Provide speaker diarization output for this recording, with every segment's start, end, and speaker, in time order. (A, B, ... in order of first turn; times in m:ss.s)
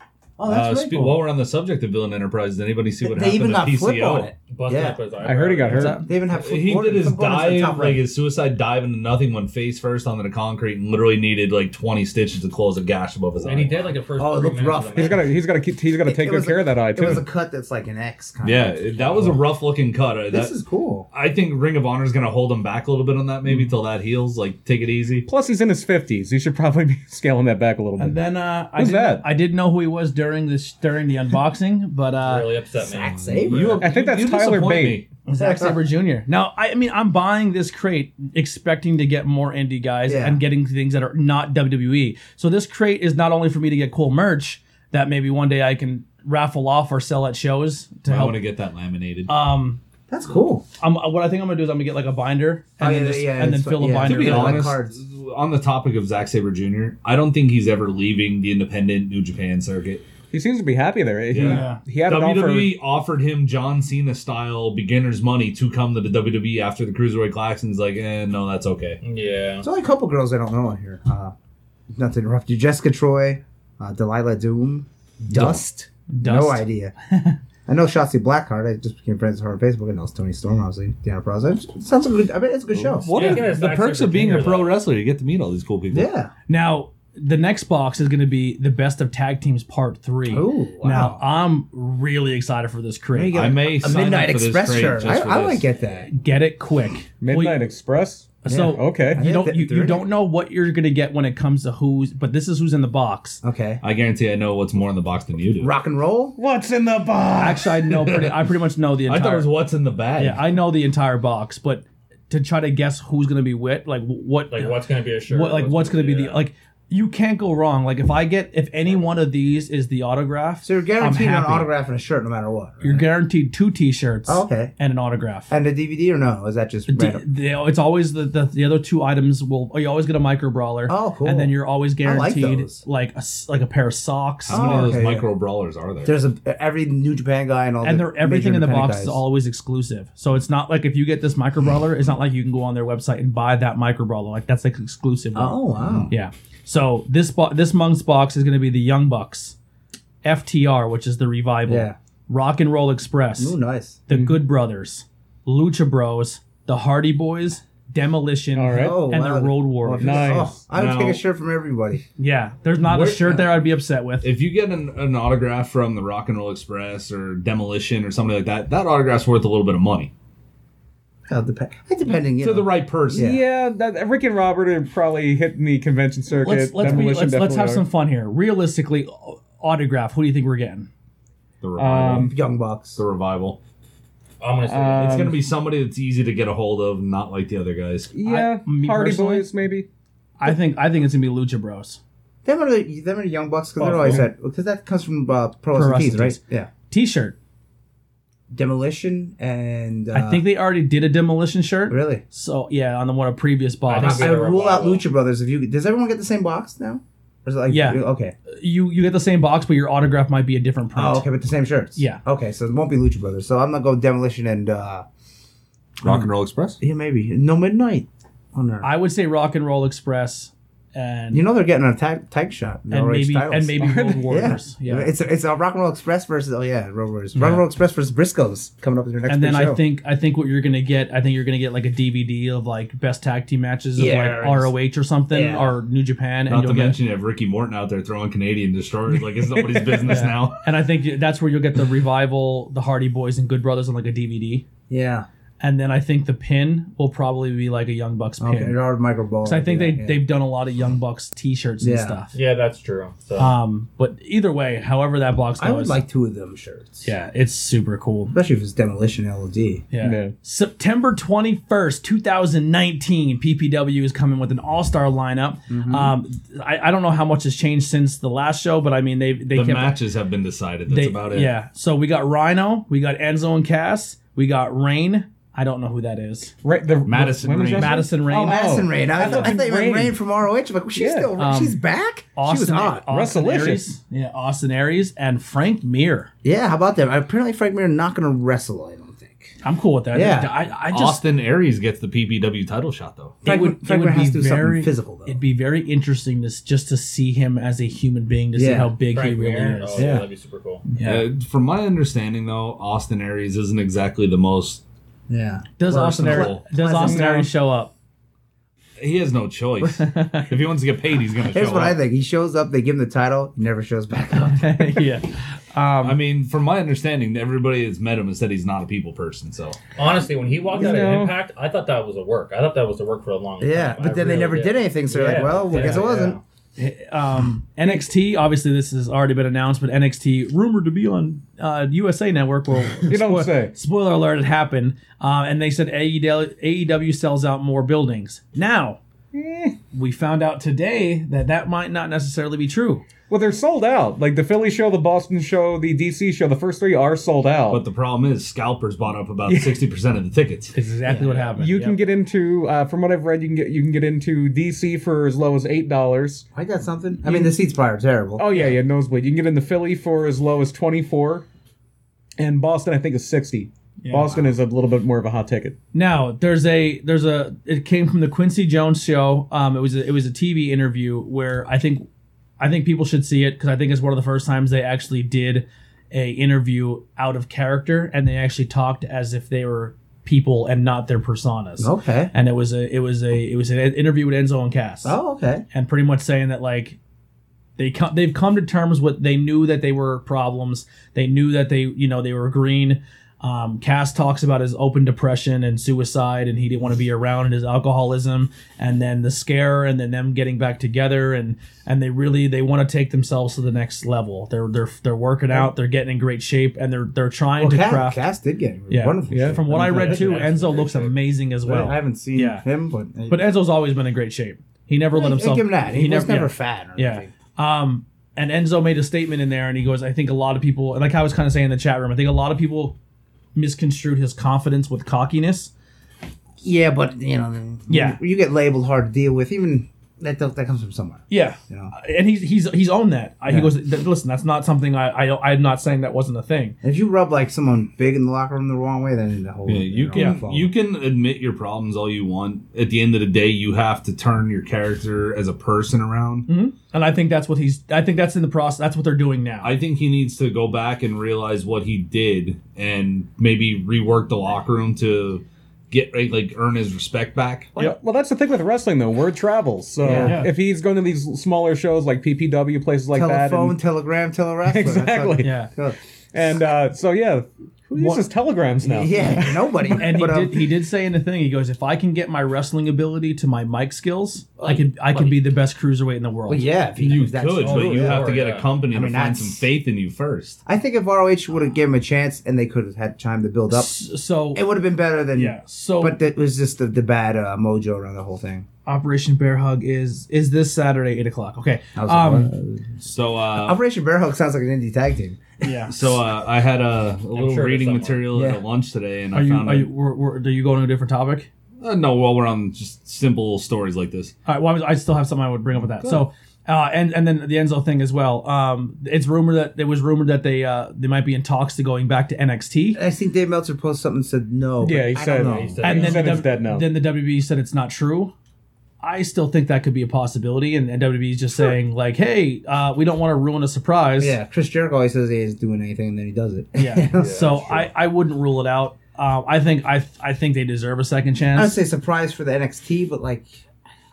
0:00.4-0:01.2 A
0:00.5-0:04.3 B
0:03.0-0:05.0 A
0:04.5-0:06.0 C
0:05.2-0:06.0 D
0:05.7-0:06.1 E
0:06.0-0:08.0 A
0:06.3-0:14.0 B
0:13.4-0:15.2 C
0:14.2-0:15.2 A
0:14.9-0:17.2 D
0:16.0-0:19.4 A
0:18.4-0:20.5 B
0:20.3-0:21.1 A
0:21.1-0:25.3 B
0:25.3-0:28.2 D
0:28.0-0:32.5 E
0:28.7-0:29.3 D
0:32.2-0:33.8 C
0:32.8-0:33.9 A
0:33.3-0:35.1 B
0:33.8-0:35.0 D
0:35.3-0:48.4 E
0:35.3-0:35.8 A
0:40.1-0:40.4 A
0:48.1-0:49.3 B
0:49.3-0:49.8 E
0:50.1-0:50.6 A
0:50.8-0:54.7 E
0:52.8-0:55.0 A
0:54.0-1:00.0 B
1:00.3-1:02.8 D
1:01.3-1:09.0 B
1:01.4-1:01.8 E
1:09.0-1:09.7 C
1:09.6-1:11.3 A
1:11.9-1:16.9 A
1:15.3-1:15.6 B
1:16.1-1:17.4 E
1:17.7-1:23.1 A
1:22.8-1:23.4 D
1:22.9-1:26.1 B
1:23.1-1:24.8 C
1:23.2-1:23.4 E
1:25.9-1:26.3 A
1:26.5-1:34.0 E
1:30.3-1:31.2 A
1:33.1-1:36.1 A
1:33.3-1:35.7 B
1:36.1-1:37.6 E
1:37.2-1:39.3 D
1:38.4-1:43.4 E
1:38.5-1:40.1 A
1:43.4-1:43.8 A
1:43.8-1:45.7 B
1:45.6-1:46.4 A
1:46.4-1:48.0 D
1:47.4-1:49.5 E
1:49.1-1:50.4 B
1:50.2-2:01.7 E
1:54.5-1:56.4 C
2:00.6-2:03.1 A
2:02.8-2:05.5 E
2:04.3-2:04.7 A
2:05.5-2:07.2 A
2:06.9-2:14.9 E
2:10.9-2:12.8 A
2:14.5-2:16.1 B
2:14.5-2:15.3 A
2:16.0-2:19.2 A
2:17.8-2:29.6 E
2:25.4-2:26.1 A
2:30.2-2:33.6 E
2:31.7-2:32.0 A
2:33.4-2:34.0 A
2:34.1-2:40.4 E
2:34.1-2:34.4 D
2:38.6-2:39.0 D
2:38.8-2:42.0 A
2:40.0-2:40.6 D
2:40.7-2:41.2 B
2:42.2-2:44.3 E
2:42.9-2:43.3 B
2:44.2-2:50.1 B
2:51.3-2:53.4 A
2:52.4-2:53.3 B
2:53.2-2:57.8 D
2:56.4-3:00.9 E
3:01.6-3:02.4 B
3:01.8-3:02.3 D
3:02.1-3:03.0 A
3:03.0-3:03.6 B
3:04.4-3:05.3 C
3:04.7-3:05.4 D
3:04.9-3:08.1 B
3:08.1-3:09.9 D
3:08.2-3:09.5 E
3:10.4-3:12.0 E
3:12.4-3:16.7 A
3:13.8-3:14.3 E
3:15.7-3:17.4 E
3:18.5-3:20.5 A
3:20.1-3:24.3 E
3:21.9-3:22.2 A
3:23.9-3:25.1 C
3:24.0-3:28.4 A
3:27.7-3:31.3 E
3:31.0-3:35.0 A
3:32.0-3:32.2 E
3:36.0-3:36.3 A
3:36.0-3:36.8 B
3:36.8-3:38.9 A
3:38.8-3:41.4 E
3:41.3-3:49.8 A
3:42.9-3:45.1 E
3:43.8-3:44.4 D
3:47.4-3:47.6 E
3:49.3-3:57.0 E
3:54.0-3:54.7 A
3:55.3-3:55.8 A
3:56.5-4:00.6 B
3:59.1-4:00.3 D
4:00.1-4:04.6 E
4:04.9-4:05.3 A
4:05.6-4:08.8 E
4:08.4-4:10.2 A
4:09.4-4:12.3 E
4:11.8-4:12.2 A
4:12.3-4:13.5 C
4:13.4-4:16.0 E
4:15.6-4:17.1 A
4:17.0-4:18.4 E
4:18.3-4:19.8 A
4:19.9-4:30.0 E
4:20.0-4:20.3 D
4:25.7-4:26.2 A
4:29.5-4:31.5 B
4:30.9-4:36.5 E
4:36.6-4:40.2 D
4:37.0-4:38.0 B
4:37.7-4:39.5 E
4:38.3-4:43.1 A
4:40.9-4:41.3 D
4:41.4-4:41.8 E
4:42.4-4:46.3 E
4:43.1-4:43.8 D
4:46.4-4:49.6 A
4:49.6-4:51.2 E
4:50.1-4:50.5 A
4:50.9-4:53.4 B
4:53.4-4:55.4 A
4:53.4-5:00.2 E
4:58.6-4:59.0 A
4:59.1-5:00.8 C
5:00.0-5:00.3 A
5:00.9-5:01.3 E
5:01.0-5:04.8 B
5:05.3-5:07.5 A
5:05.8-5:07.9 E
5:06.0-5:06.6 B
5:07.0-5:07.3 D
5:09.0-5:12.0 B
5:09.8-5:10.5 E
5:11.5-5:15.0 A
5:14.4-5:16.2 E
5:16.0-5:19.8 B
5:20.0-5:26.4 C
5:20.7-5:21.4 D
5:23.6-5:26.4 A
5:25.1-5:26.0 E
5:26.8-5:39.0 E
5:33.1-5:33.7 D
5:39.3-5:39.8 D
5:39.9-5:43.0 E
5:43.3-5:47.8 D
5:47.7-5:50.8 B
5:49.5-5:49.7 D
5:50.7-5:52.0 E
5:51.1-5:51.5 A
5:51.6-5:56.4 D
5:56.5-5:58.7 A
5:57.2-5:57.5 D
5:58.4-6:01.4 D
6:02.4-6:05.8 D
6:04.0-6:04.3 E
6:05.9-6:12.1 E
6:12.6-6:25.2 E
6:21.8-6:22.3 A
6:25.0-6:25.6 A
6:25.7-6:27.0 E
6:27.8-6:48.2 E
6:47.6-6:50.4 A
6:48.9-6:52.6 E
6:49.3-6:50.1 D
6:50.1-6:51.1 B
6:50.1-6:51.1 C
6:51.6-6:53.5 A
6:53.3-7:03.0 E
6:55.1-6:57.3 A
7:03.6-7:05.7 E
7:06.6-7:11.9 A
7:07.9-7:08.2 E
7:11.3-7:16.8 E
7:13.5-7:13.7 A
7:16.8-7:20.7 A
7:19.7-7:26.5 B
7:20.1-7:20.4 E
7:26.5-7:29.8 E
7:29.6-7:37.7 B
7:37.8-7:43.8 D
7:40.0-7:40.4 A
7:40.1-7:40.5 E
7:43.1-7:46.0 A
7:44.6-7:45.6 D
7:45.4-7:45.7 E
7:46.3-7:50.1 D
7:48.0-7:48.2 E
7:48.8-7:50.7 A
7:49.9-7:56.7 E
7:54.6-7:54.8 A
7:56.5-7:58.3 A
7:57.0-8:00.6 B
7:57.6-7:58.8 C
7:58.9-7:59.7 A
8:00.7-8:04.0 A
8:03.7-8:04.6 E
8:04.5-8:08.6 A
8:05.3-8:06.2 E
8:08.9-8:12.7 E
8:12.0-8:12.8 A
8:13.0-8:13.8 B
8:13.5-8:15.6 A
8:15.6-8:15.9 E
8:15.9-8:19.9 B
8:17.3-8:18.3 C
8:18.3-8:18.6 A
8:19.3-8:21.5 E
8:21.8-8:24.3 B
8:24.5-8:33.0 E
8:33.0-8:35.8 A
8:34.8-8:36.9 D
8:35.3-8:36.5 C
8:35.8-8:38.3 E
8:39.0-8:44.4 E
8:44.2-8:47.9 A
8:46.8-8:51.8 E
8:47.2-8:47.7 C
8:51.6-8:53.5 A